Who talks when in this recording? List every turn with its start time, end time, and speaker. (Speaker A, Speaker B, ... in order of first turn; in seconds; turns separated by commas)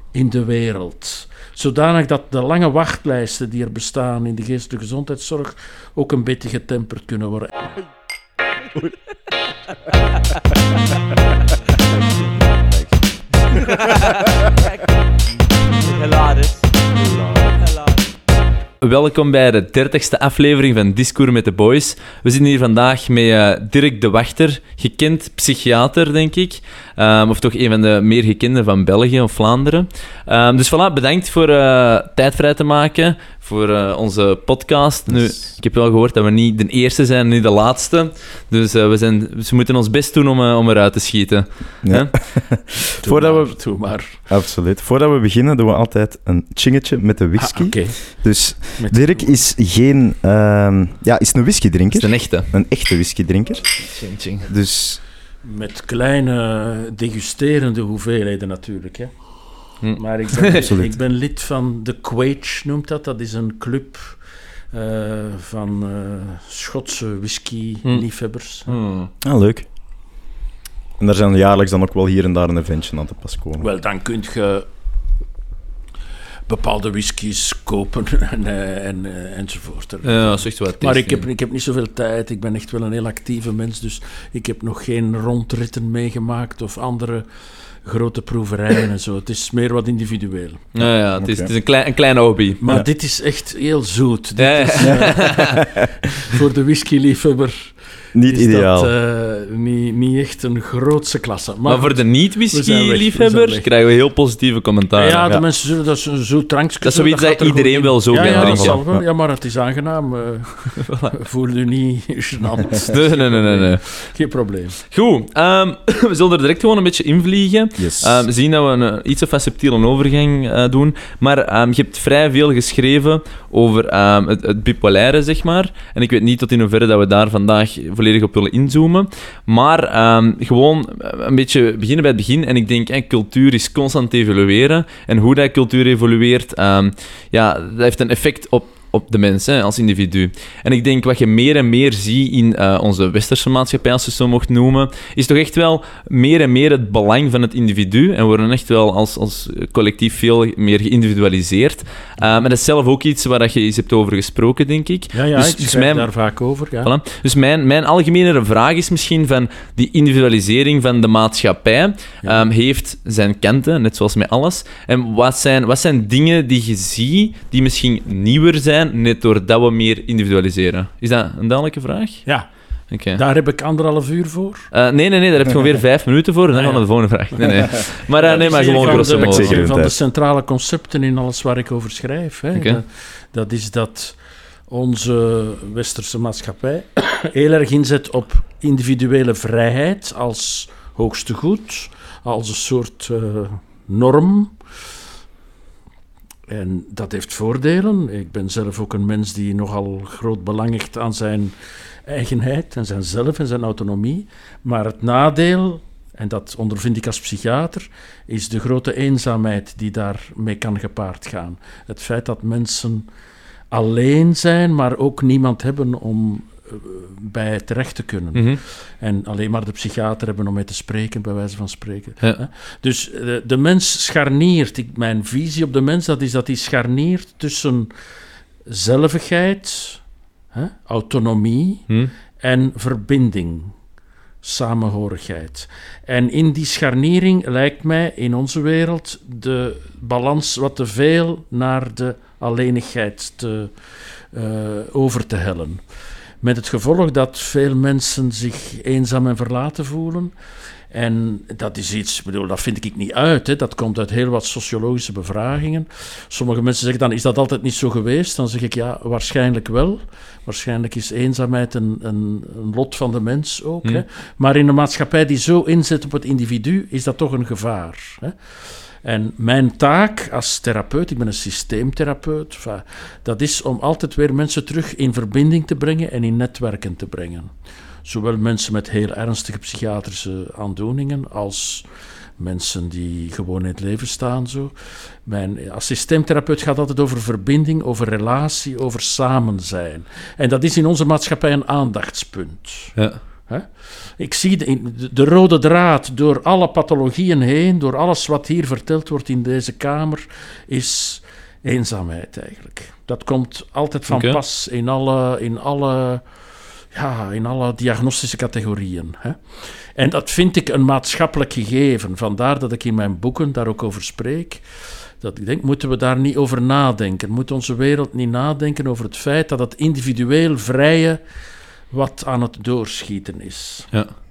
Speaker A: 0.1-7.8, Speaker B: 13.8-14.2, Speaker B: 15.8-16.6, Speaker B: 18.8-42.1, Speaker C: 41.9-43.5, Speaker A: 43.0-44.2, Speaker C: 44.3-53.8, Speaker A: 47.4-48.0, Speaker A: 48.8-49.3, Speaker B: 51.9-52.5, Speaker B: 53.9-54.5, Speaker C: 54.5-55.0, Speaker A: 55.4-59.1, Speaker B: 59.8-60.6, Speaker A: 59.9-64.2, Speaker C: 60.5-60.9, Speaker A: 64.7-68.7, Speaker B: 68.7-69.1, Speaker C: 69.2-69.7, Speaker C: 71.0-73.7, Speaker A: 73.6-74.7, Speaker A: 76.5-87.3, Speaker B: 80.0-81.2, Speaker A: 87.8-90.7, Speaker B: 90.7-92.8, Speaker C: 91.2-91.5, Speaker A: 92.6-95.4, Speaker B: 94.4-95.6, Speaker C: 94.8-95.8, Speaker A: 96.1-103.7, Speaker C: 98.1-98.9, Speaker B: 101.7-105.2, Speaker A: 104.9-114.8, Speaker B: 106.8-108.8, Speaker C: 108.1-109.0, Speaker B: 110.8-111.1, Speaker B: 112.9-113.8, Speaker B: 114.9-156.1, Speaker C: 117.8-118.2, Speaker A: 155.1-156.9, Speaker B: 156.8-172.2, Speaker B: 172.9-173.2, Speaker A: 173.1-174.7, Speaker B: 174.7-179.6, Speaker A: 176.5-176.8, Speaker A: 177.4-177.6, Speaker A: 178.2-184.2, Speaker C: 178.6-179.9, Speaker B: 182.5-182.8, Speaker A: 184.7-194.5, Speaker A: 196.5-201.5, Speaker A: 202.1-213.1, Speaker A: 213.7-227.9, Speaker B: 218.3-218.6, Speaker A: 228.7-230.0, Speaker A: 230.5-231.8, Speaker A: 232.4-233.7, Speaker A: 234.4-243.7, Speaker A: 244.3-245.8, Speaker A: 246.4-250.3, Speaker A: 250.9-268.4, Speaker A: 269.0-277.5, Speaker A: 278.0-281.9, Speaker A: 282.4-284.7, Speaker A: 285.2-292.9, Speaker A: 293.5-306.2, Speaker B: 304.1-304.4, Speaker A: 306.9-314.6, Speaker A: 315.2-321.2, Speaker A: 321.9-323.9